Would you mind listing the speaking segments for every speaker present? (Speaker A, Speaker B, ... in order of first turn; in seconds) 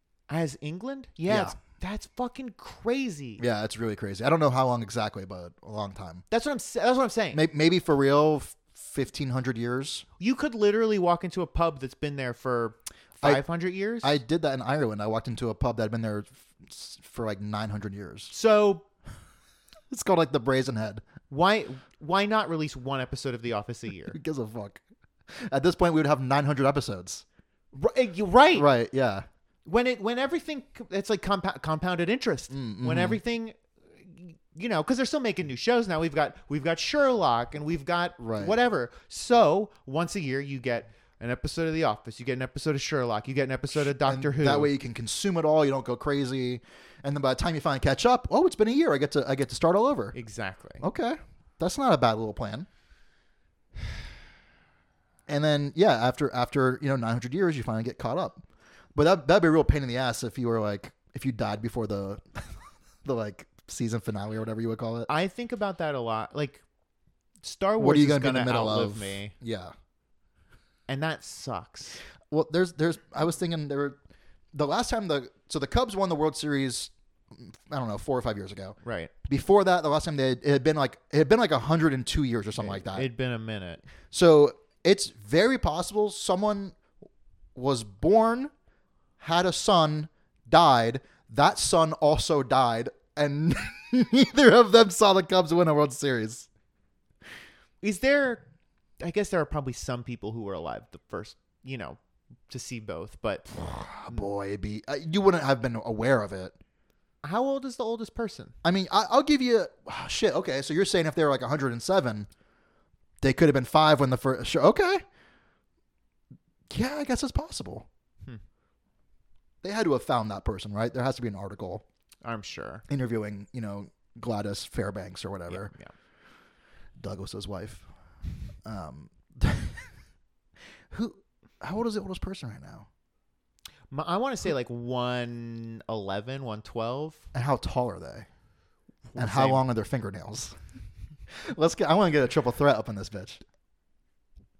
Speaker A: 0.3-3.4, 6.3-7.4, 10.2-14.2, 18.3-18.9, 21.3-24.2, 27.7-28.7, 29.6-44.7, 50.1-50.8, 65.1-66.6, 67.4-69.3, 70.9-72.0, 78.8-79.1, 82.6-83.8, 97.8-98.4, 99.0-103.5, 107.2-108.5, 122.2-122.8, 125.5-125.9, 133.9-137.3, 139.1-139.7
Speaker B: 1.3-1.6, 3.4-6.2, 7.3-10.1, 14.0-18.3, 19.9-21.0, 24.1-27.2, 28.5-29.3, 32.5-33.2, 38.2-38.5, 43.9-50.1, 50.8-52.7, 55.3-65.1, 67.8-69.7, 72.3-74.0, 74.5-83.1, 84.1-86.8, 87.5-88.5, 89.2-96.5, 103.5-106.6, 108.6-112.3, 113.2-115.0, 116.7-117.9, 119.6-121.8, 122.9-125.7, 127.0-127.9, 128.6-129.9, 130.9-132.9, 137.3-138.3, 139.2-140.6, 141.3-143.4